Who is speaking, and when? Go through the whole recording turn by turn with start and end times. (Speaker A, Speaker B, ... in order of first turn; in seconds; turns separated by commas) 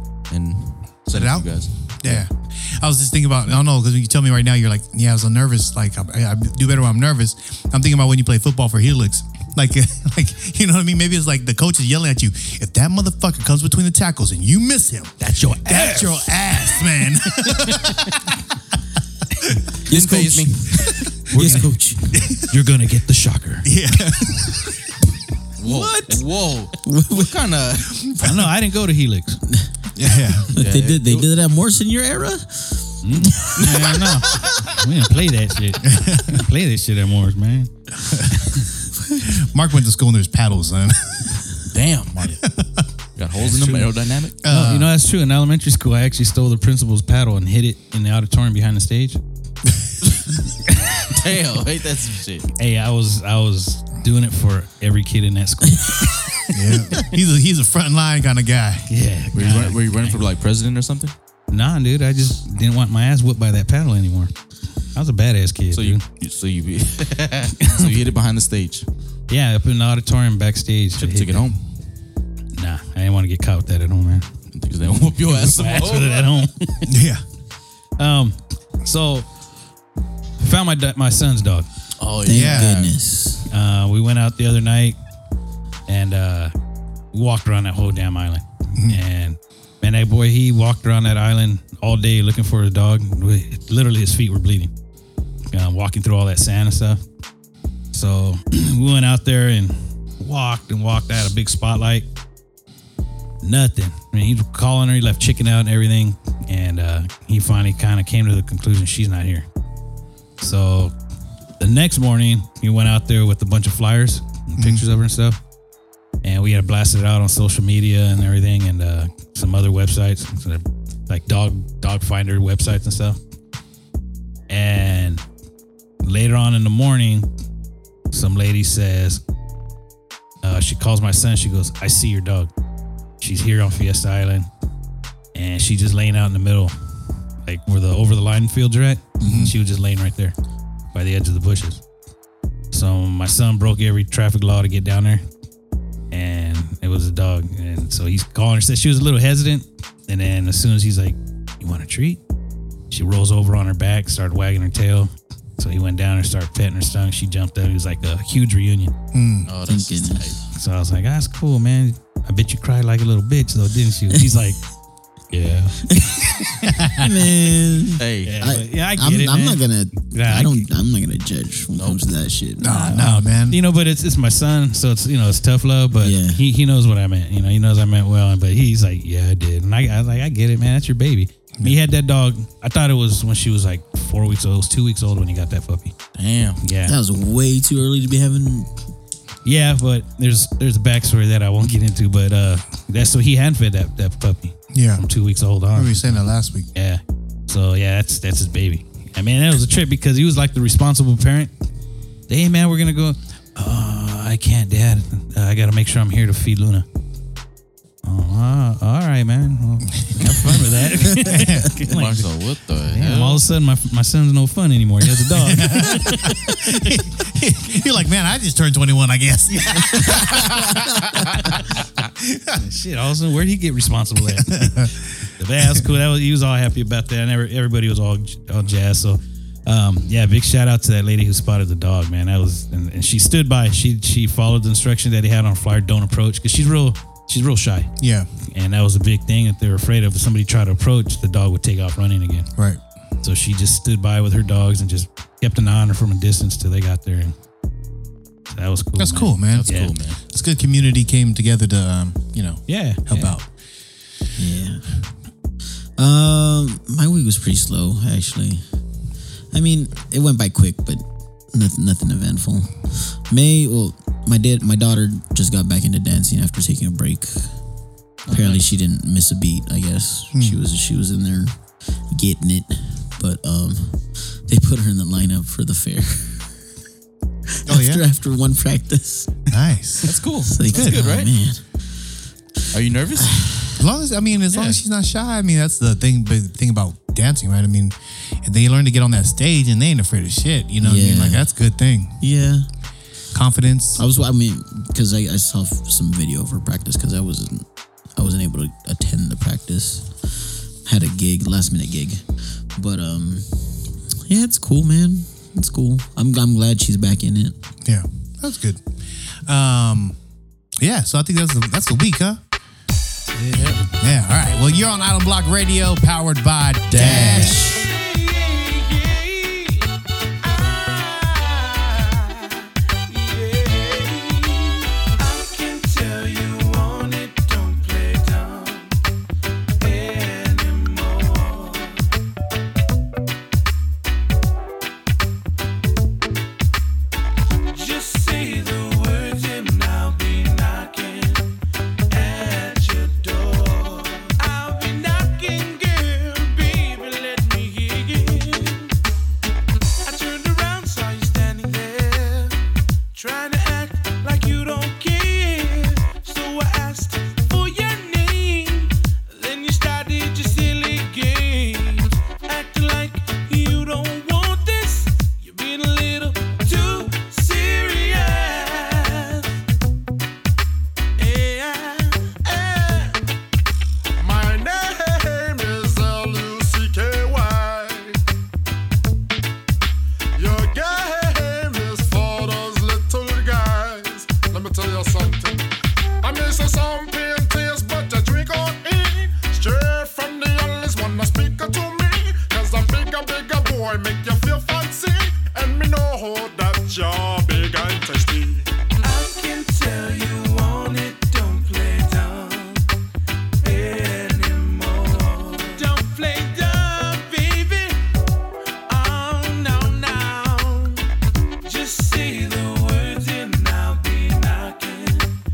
Speaker A: 0.3-2.2, Speaker B: 1.1-18.3, Speaker C: 15.2-16.4, Speaker C: 17.4-17.9, Speaker A: 19.8-21.0, Speaker D: 19.9-22.1, Speaker B: 20.8-21.5, Speaker C: 21.3-21.7, Speaker B: 22.1-22.5, Speaker C: 22.3-23.7, Speaker B: 23.6-24.8, Speaker A: 25.6-28.1, Speaker D: 25.6-26.2, Speaker D: 26.8-27.4, Speaker C: 28.2-29.4, Speaker B: 29.9-30.5, Speaker D: 30.4-34.0, Speaker A: 30.5-31.3, Speaker C: 33.0-37.7, Speaker B: 35.8-36.4, Speaker B: 38.1-38.5, Speaker C: 38.3-38.7, Speaker B: 39.2-41.5, Speaker A: 41.7-42.5, Speaker B: 42.5-42.9, Speaker A: 43.1-44.4, Speaker B: 43.4-43.9, Speaker B: 44.4-44.9, Speaker C: 44.5-49.2, Speaker A: 51.0-52.5, Speaker C: 52.6-56.2, Speaker B: 56.5-58.9, Speaker C: 58.9-60.2, Speaker A: 59.3-61.1, Speaker C: 61.5-64.3, Speaker C: 64.9-66.0, Speaker A: 65.7-68.8, Speaker C: 67.6-67.9, Speaker C: 69.3-71.5, Speaker A: 71.0-71.5, Speaker C: 72.5-74.3, Speaker A: 74.5-76.4, Speaker C: 75.0-76.9, Speaker B: 76.8-77.2, Speaker C: 78.0-79.3, Speaker C: 80.4-81.7, Speaker A: 82.0-82.9, Speaker D: 82.2-83.5, Speaker B: 82.3-82.8, Speaker C: 83.5-85.0, Speaker C: 85.9-86.5, Speaker C: 87.1-94.7, Speaker B: 88.7-89.0, Speaker C: 95.5-97.0, Speaker C: 97.9-102.0, Speaker C: 103.4-109.5, Speaker C: 110.4-110.9, Speaker C: 111.6-115.4, Speaker B: 114.6-114.8, Speaker C: 116.2-123.2, Speaker C: 124.5-125.2, Speaker C: 126.0-127.3, Speaker C: 128.1-129.2, Speaker C: 130.4-132.5, Speaker C: 133.2-134.5, Speaker C: 135.3-136.7, Speaker C: 137.4-140.3, Speaker D: 139.2-139.5, Speaker B: 139.2-139.5, Speaker C: 140.9-141.8, Speaker C: 142.7-145.2, Speaker C: 146.1-152.2, Speaker C: 152.9-158.9, Speaker B: 159.1-159.5, Speaker A: 159.4-160.4, Speaker D: 159.7-160.4, Speaker C: 160.5-164.6, Speaker C: 165.3-165.9, Speaker D: 165.9-172.8, Speaker C: 166.6-167.1, Speaker A: 167.9-168.4, Speaker C: 168.2-170.6, Speaker A: 171.7-172.1, Speaker B: 172.6-173.6, Speaker C: 172.6-185.9, Speaker D: 176.0-176.4, Speaker A: 186.1-186.6, Speaker C: 186.6-186.9, Speaker D: 186.8-188.7, Speaker C: 189.4-196.2, Speaker B: 194.7-195.0, Speaker B: 195.7-196.7, Speaker C: 196.7-201.5, Speaker C: 202.3-206.8, Speaker C: 208.0-212.2, Speaker B: 210.0-210.6, Speaker B: 211.2-211.7, Speaker A: 211.8-213.4, Speaker C: 212.9-216.6, Speaker B: 215.3-221.4, Speaker B: 222.1-222.6, Speaker C: 222.6-237.9, Speaker B: 224.3-225.0, Speaker B: 238.0-238.3, Speaker C: 238.5-242.5, Speaker B: 242.6-242.8, Speaker C: 243.2-247.3, Speaker C: 248.5-250.0, Speaker B: 249.0-249.7, Speaker A: 249.5-250.2, Speaker B: 250.2-253.5, Speaker C: 252.7-253.3, Speaker D: 254.4-254.8, Speaker D: 256.0-258.6, Speaker D: 259.5-267.5, Speaker D: 268.3-271.5, Speaker B: 270.3-270.6, Speaker D: 272.1-276.5, Speaker D: 277.5-279.4, Speaker B: 277.6-278.0, Speaker B: 279.5-280.1, Speaker A: 280.0-281.3, Speaker D: 280.4-281.6, Speaker B: 280.7-281.1, Speaker A: 282.7-283.5, Speaker D: 283.2-283.8, Speaker B: 283.8-292.2, Speaker A: 284.5-284.8, Speaker D: 290.8-291.4, Speaker D: 292.2-292.7, Speaker B: 293.3-294.0, Speaker D: 294.0-303.5, Speaker D: 304.3-307.5, Speaker B: 307.8-308.8, Speaker B: 309.4-310.2, Speaker B: 310.8-312.4, Speaker C: 313.3-313.9, Speaker A: 313.5-313.8, Speaker B: 313.9-317.7, Speaker A: 316.9-317.8, Speaker D: 316.9-317.8, Speaker E: 317.7-319.9, Speaker E: 320.4-329.0, Speaker E: 329.8-332.1, Speaker E: 337.7-341.5, Speaker E: 342.1-348.9, Speaker E: 350.0-352.6, Speaker E: 353.1-369.5, Speaker E: 371.2-373.2, Speaker F: 374.2-378.2, Speaker F: 380.4-385.7, Speaker F: 386.2-398.7, Speaker E: 399.0-402.9, Speaker E: 403.6-408.1, Speaker E: 408.9-411.1, Speaker E: 411.6-415.4